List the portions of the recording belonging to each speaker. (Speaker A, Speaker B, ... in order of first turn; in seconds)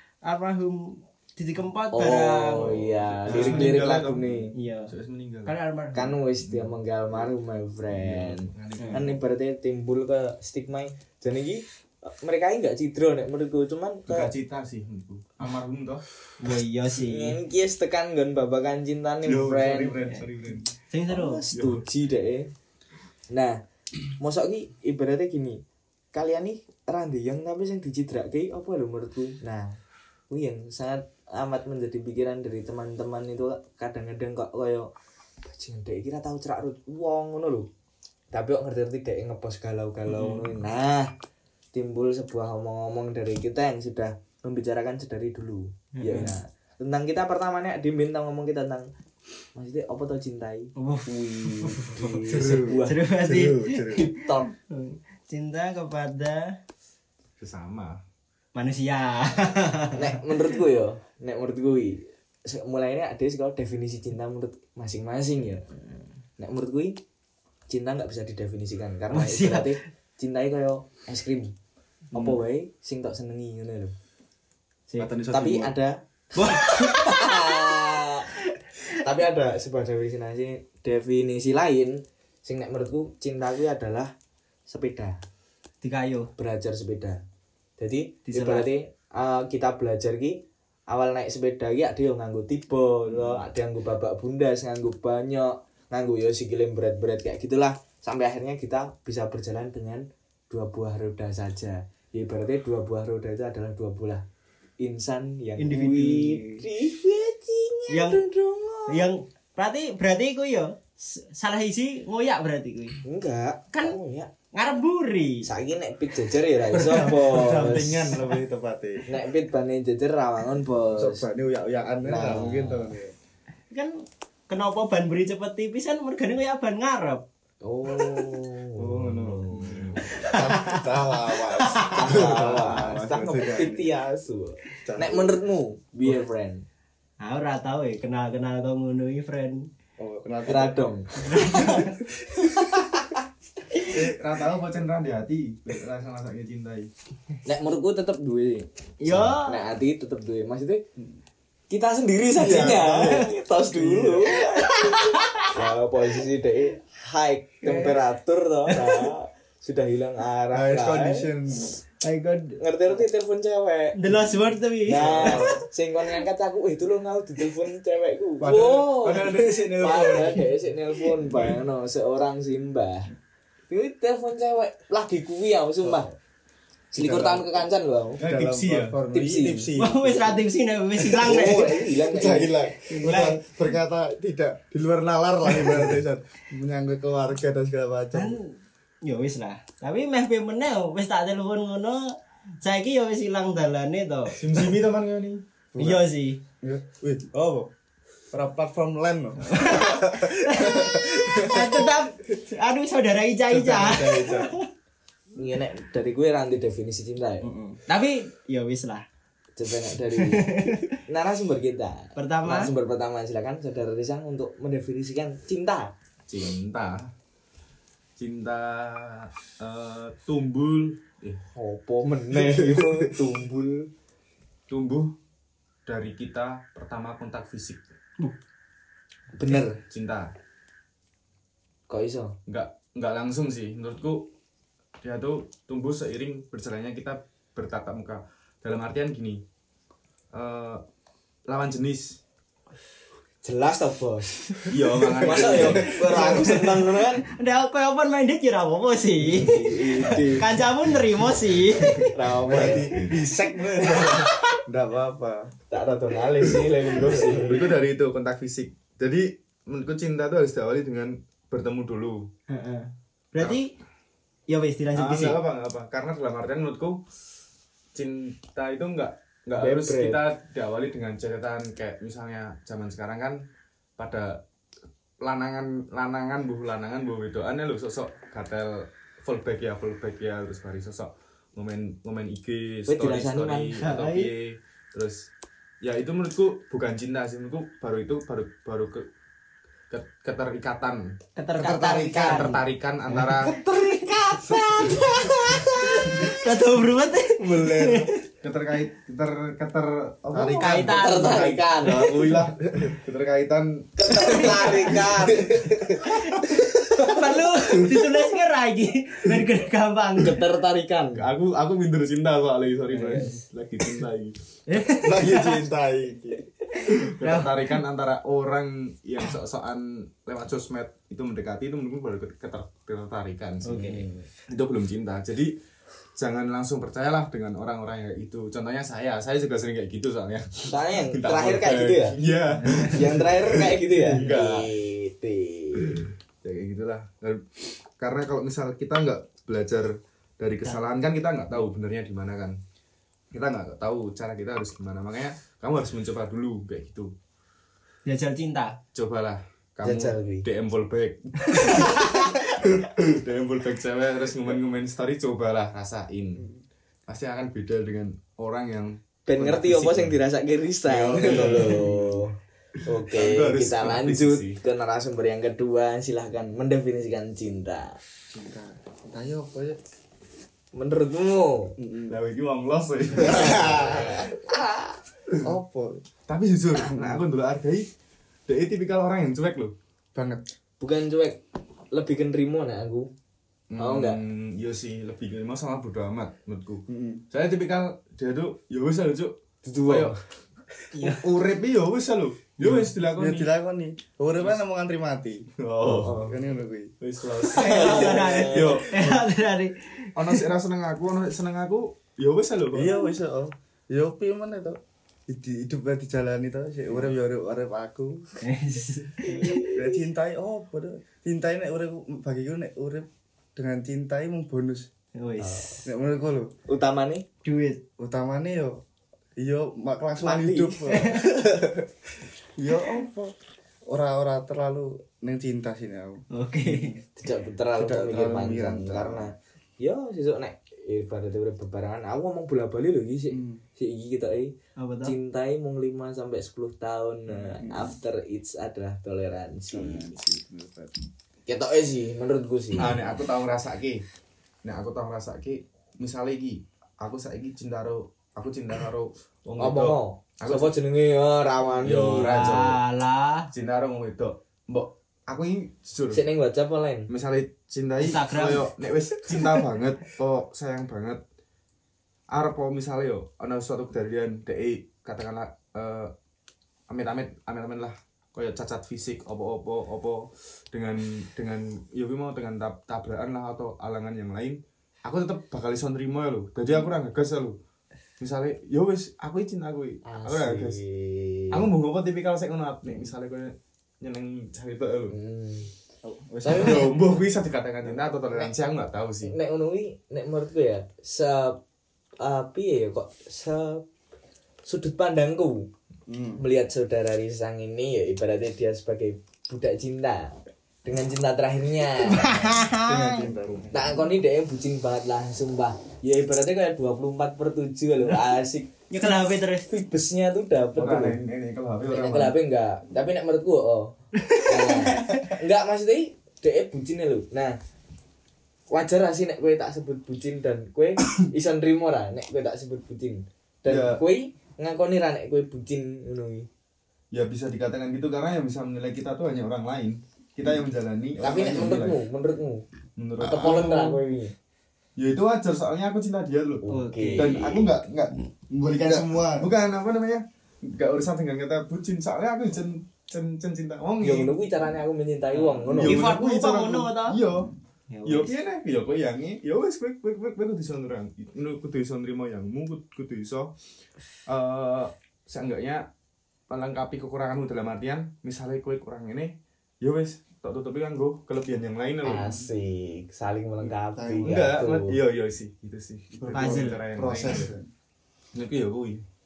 Speaker A: 0.2-4.0, 4.5-4.9, 5.4-6.1, 16.4-17.4, 20.9-21.4, 46.0-46.3, 50.8-52.1, 52.8-53.9, 54.7-56.5, 58.5-60.2, 69.1-69.8, 76.3-77.6, 85.8-86.3, 88.3-88.7, 105.6-106.6, 107.9-108.2, 108.9-113.0, 114.5-115.4, 123.7-124.0, 124.5-127.2, 130.1-132.0, 137.2-139.7, 141.5-141.8, 149.0-149.6, 154.4-155.3, 162.0-162.6, 164.0-165.5, 179.8-181.8, 182.9-183.4, 188.1-188.5, 189.0-194.3, 195.8-196.4, 199.5-204.7, 207.9-209.0, 210.1-211.0, 212.2-212.7, 246.3-252.7, 262.5-263.7, 264.5-265.4, 283.8-284.3, 291.4-298.2, 300.5-302.1, 306.9-310.4, 314.7-315.6, 316.8-317.8, 323.7-324.0, 348.1-348.8, 351.6-352.1, 390.9-391.2, 397.4-400.4, 408.4-409.7, 415.1-415.8, 417.4-417.8, 420.9-421.2, 426.3-426.9, 434.8-435.1, 452.1-453.5, 458.0-458.7, 502.2-503.3, 508.9-509.6, 514.2-515.2, 536.7-537.5, 545.4-547.2, 547.9-548.3, 566.3-566.8
Speaker B: 1.9-4.5, 5.9-14.3, 17.0-20.0, 21.1-22.5, 23.3-23.6, 24.2-25.6, 26.1-29.8, 30.3-34.9, 35.4-37.7, 38.3-41.1, 41.7-48.9, 49.5-53.0, 53.9-54.5, 59.9-65.6, 66.4-66.9, 67.7-71.5, 72.1-73.9, 75.3-78.3, 79.0-84.1, 84.7-85.2, 86.4-87.2, 87.8-90.4, 90.9-104.2, 104.8-109.1, 113.0-114.3, 115.4-118.1, 119.1-121.2, 122.0-122.9, 127.6-129.8, 131.9-136.6, 140.5-141.8, 142.4-143.2, 147.4-150.8, 151.7-154.9, 155.5-161.2, 162.6-164.0, 164.8-173.1, 173.7-176.1, 176.9-178.2, 179.1-179.7, 181.3-182.7, 205.3-207.5, 209.6-215.9, 221.5-223.9, 229.3-229.8, 231.9-232.3, 243.4-244.4, 245.2-247.2, 249.3-250.5, 252.1-252.9, 255.7-257.6, 269.6-270.2, 282.9-283.8, 300.8-302.4, 304.0-305.8, 310.2-311.2, 323.7-324.1, 330.7-332.2, 332.7-336.0, 349.8-350.4, 359.2-362.3, 362.9-367.9, 370.7-371.7, 373.2-375.0, 380.8-381.4, 381.9-383.1, 383.8-384.2, 389.6-390.2, 397.6-398.8, 415.4-415.8, 416.7-417.2, 420.2-420.8, 427.2-440.1, 441.5-442.9, 449.6-452.6, 456.1-457.1, 480.0-481.7, 485.1-485.7, 486.4-486.9, 489.2-491.6, 492.2-493.8, 494.6-495.7, 496.4-500.3, 500.8-502.6, 503.7-508.7, 509.7-511.1, 511.9-517.5, 518.7-526.5, 531.2-532.6, 533.2-534.3, 536.6-537.7, 544.0-546.1, 562.0-565.0
Speaker C: 2.5-5.5, 6.4-6.7, 7.9-9.2, 14.1-16.1, 19.2-20.7, 21.5-21.8, 57.4-58.0, 75.0-75.7, 116.9-118.3, 129.7-130.1, 143.8-146.9, 178.2-178.9, 194.3-195.4, 216.3-217.1, 218.2-221.4, 224.7-225.1, 225.8-227.8, 229.9-230.3, 232.5-234.3, 235.0-239.4, 240.3-240.8, 241.5-242.2, 244.7-246.1, 257.1-262.3, 264.9-267.0, 267.9-273.4, 274.0-274.4, 275.2-285.3, 285.8-289.1, 289.9-291.1, 292.1-293.6, 298.4-305.0, 311.1-314.3, 316.9-325.5, 326.1-334.7, 335.7-342.6, 343.3-347.1, 348.9-356.4, 357.1-360.2, 360.9-362.2, 363.1-364.6, 372.1-374.1, 376.3-377.9, 378.5-379.7, 383.7-389.3, 389.9-390.1, 391.0-393.5, 395.6-396.5, 397.0-399.2, 400.1-402.9, 442.8-444.0, 444.6-450.7, 451.8-452.8, 453.5-456.2, 457.1-461.2, 462.3-466.1, 466.9-477.6, 478.2-480.8, 481.5-485.1, 486.5-489.3, 510.8-512.4, 523.7-524.0, 527.1-532.0, 533.0-534.0, 535.0-538.2, 538.8-544.3, 545.7-547.5, 548.0-553.5, 554.3-555.9, 556.5-562.4, 564.2-567.5, 568.3-569.0
Speaker D: 52.2-54.1, 116.7-119.0, 121.0-123.1, 128.8-133.9, 134.8-135.4, 140.0-142.8, 152.4-154.2, 160.5-161.7, 165.0-165.6, 168.4-170.4, 171.2-171.6, 176.9-177.4, 178.2-180.4, 181.0-188.4, 195.7-196.1, 196.6-197.7, 198.3-201.9, 203.5-204.5, 207.4-207.8, 222.3-223.1, 244.7-246.5, 252.4-255.5, 256.4-257.6, 291.6-292.5, 296.1-296.3, 297.4-298.1, 300.3-301.0, 302.4-302.9, 304.3-308.2, 315.0-316.4, 361.2-361.8, 368.3-369.8, 371.8-372.2, 373.2-374.1, 375.4-376.0, 376.9-377.2, 380.1-380.4, 386.9-387.2, 392.6-396.9, 402.7-408.2, 409.7-414.9, 415.9-416.5, 418.0-418.8, 419.4-421.9, 422.6-423.3, 423.9-427.0, 427.8-429.3, 433.3-433.6, 437.6-437.9, 439.7-441.1, 486.0-487.0, 496.1-496.4, 502.8-504.0, 538.5-539.5, 564.0-564.5, 566.2-567.7